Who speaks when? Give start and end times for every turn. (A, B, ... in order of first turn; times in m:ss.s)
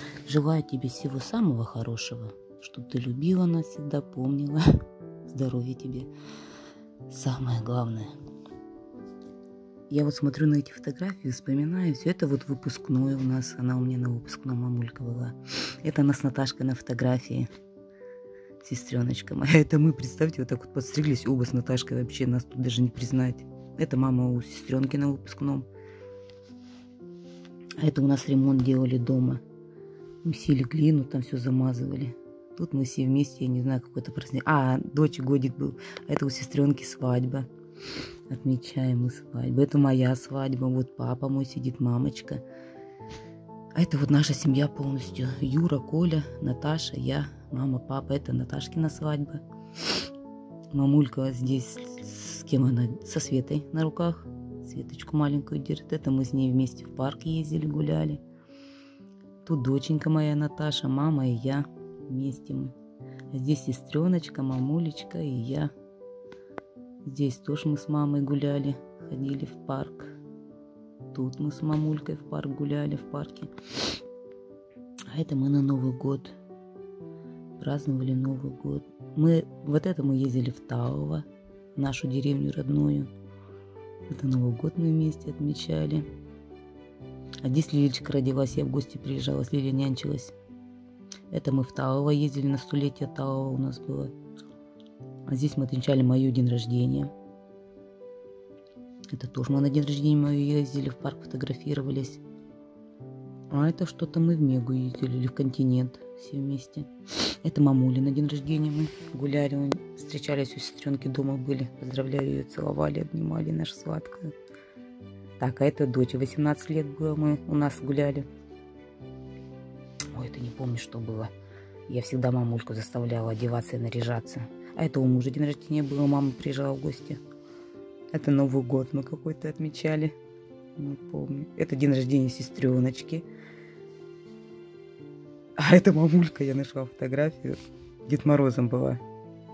0:00.2-0:04.6 A
0:05.3-0:06.1 A
0:07.1-0:08.1 A
0:09.9-0:17.5 A
0:18.6-0:25.6 A
0:27.8-0:29.4 A
0:30.2-0:37.5 A
0:38.3-0:42.4 A
0:43.7-0:49.4 A
0:50.7-0:58.2 A
0:59.4-1:02.7 A
1:03.3-1:05.7 A
1:07.0-1:10.1 A
1:11.1-1:13.5 A
1:15.1-1:16.4 A
1:17.6-1:23.1 A
1:24.1-1:26.0 A
1:27.4-1:30.3 A
1:31.3-1:34.1 A
1:35.3-1:37.1 A
1:39.1-1:42.2 A
1:43.5-1:46.9 A
1:47.4-1:54.3 A
1:55.4-1:58.2 A
2:00.1-2:01.3 A
2:01.9-2:07.2 A
2:08.1-2:10.1 A
2:10.8-2:13.2 A
2:15.6-2:19.0 A